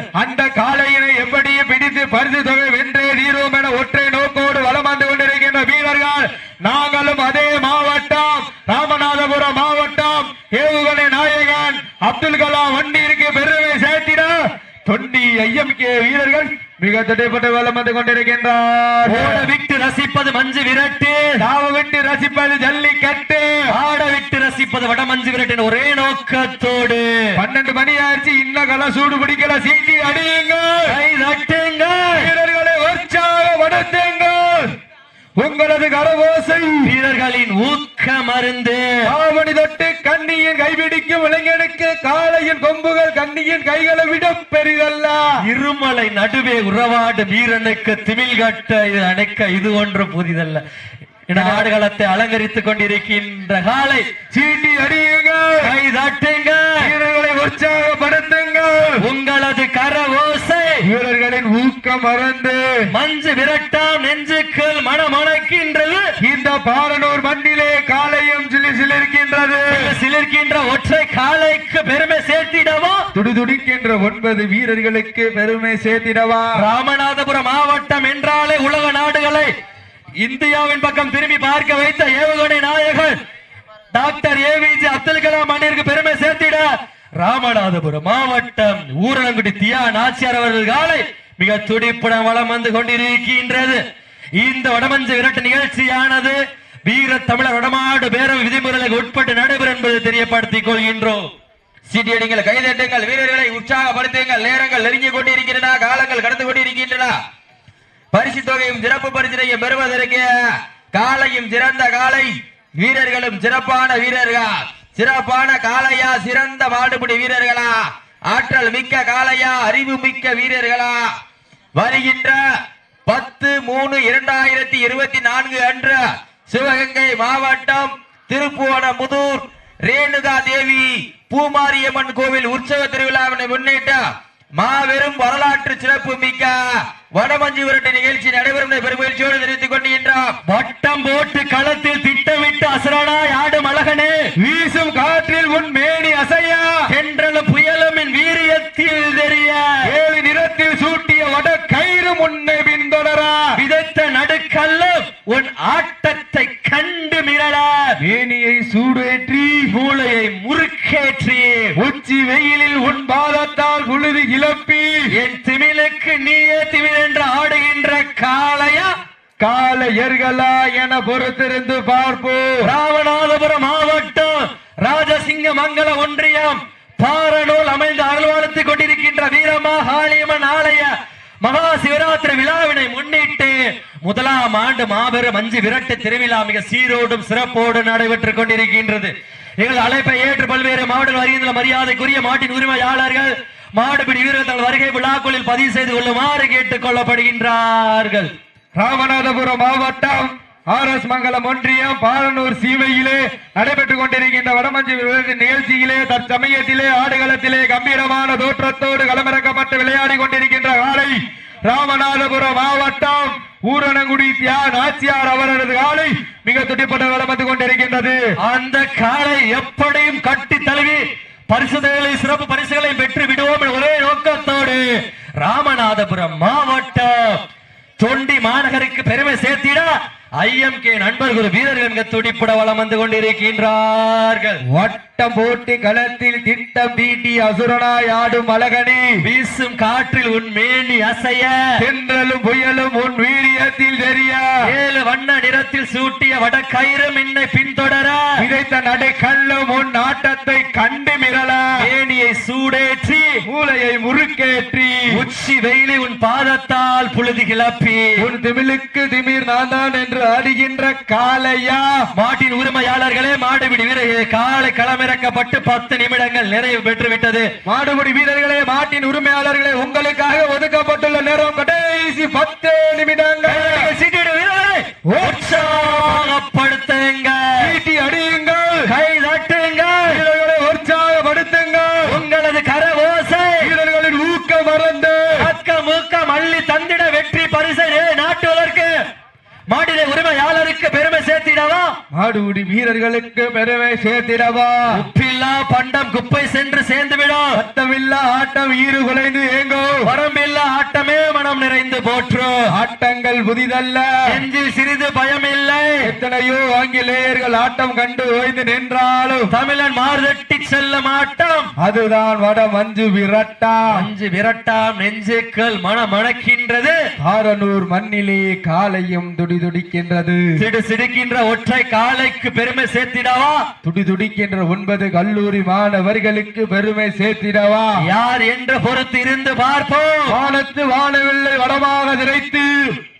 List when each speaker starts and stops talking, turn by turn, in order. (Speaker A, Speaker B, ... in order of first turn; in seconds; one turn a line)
Speaker A: 0.2-19.5
Speaker B: 19.1-21.4
Speaker A: 21.4-23.5
Speaker B: 23.7-27.1
Speaker A: 27.4-31.0
Speaker B: 30.9-32.3
Speaker A: 32.1-34.7
Speaker A: 35.4-37.0
Speaker B: 36.8-38.8
Speaker A: 39.0-45.3
Speaker B: 45.4-50.6
Speaker B: 51.3-54.0
Speaker A: 51.3-51.7
Speaker A: 54.3-55.7
Speaker B: 55.6-56.9
Speaker A: 56.8-59.0
Speaker B: 59.0-60.9
Speaker A: 60.8-62.9
Speaker B: 62.9-66.1
Speaker A: 66.2-70.0
Speaker B: 69.7-73.1
Speaker A: 73.1-76.6
Speaker B: 76.5-79.5
Speaker B: 80.2-83.2
Speaker B: 83.9-86.7
Speaker B: 87.2-93.8
Speaker B: 94.4-101.3
Speaker C: 101.9-107.2
Speaker C: 108.1-110.3
Speaker C: 110.9-117.8
Speaker C: 118.3-121.0
Speaker C: 121.8-122.4
Speaker C: 123.1-134.0
Speaker C: 134.6-136.6
Speaker C: 137.2-140.3
Speaker B: 140.5-144.2
Speaker A: 144.4-146.8
Speaker B: 146.9-149.8
Speaker A: 149.8-153.6
Speaker B: 153.6-158.0
Speaker A: 158.0-159.7
Speaker B: 159.7-161.8
Speaker A: 161.8-164.9
Speaker B: 165.1-168.9
Speaker A: 169.4-172.7
Speaker B: 172.6-198.3
Speaker A: 198.8-218.2
Speaker B: 218.4-224.8
Speaker B: 225.4-227.4
Speaker B: 228.0-234.6
Speaker A: 234.7-239.1
Speaker B: 239.2-241.8
Speaker A: 241.8-244.6
Speaker B: 244.7-248.4
Speaker A: 248.4-251.9
Speaker B: 251.8-253.4
Speaker A: 253.5-255.2
Speaker B: 255.1-258.2
Speaker A: 258.2-262.1
Speaker B: 262.1-267.5
Speaker A: 267.6-273.9
Speaker B: 273.4-277.7
Speaker A: 275.1-276.3
Speaker A: 277.6-278.9
Speaker B: 278.9-280.2
Speaker A: 280.1-282.2
Speaker B: 282.1-283.7
Speaker A: 283.6-285.5
Speaker B: 285.4-288.9
Speaker B: 289.7-291.9
Speaker A: 292.1-295.1
Speaker B: 294.9-297.6
Speaker A: 297.6-300.1
Speaker B: 300.0-302.6
Speaker A: 302.7-304.4
Speaker B: 304.3-306.1
Speaker A: 306.0-309.5
Speaker B: 309.5-311.7
Speaker A: 311.8-314.1
Speaker B: 313.9-316.9
Speaker A: 317.2-320.6
Speaker B: 320.6-323.7
Speaker A: 323.8-328.0
Speaker B: 328.0-330.4
Speaker A: 330.3-332.9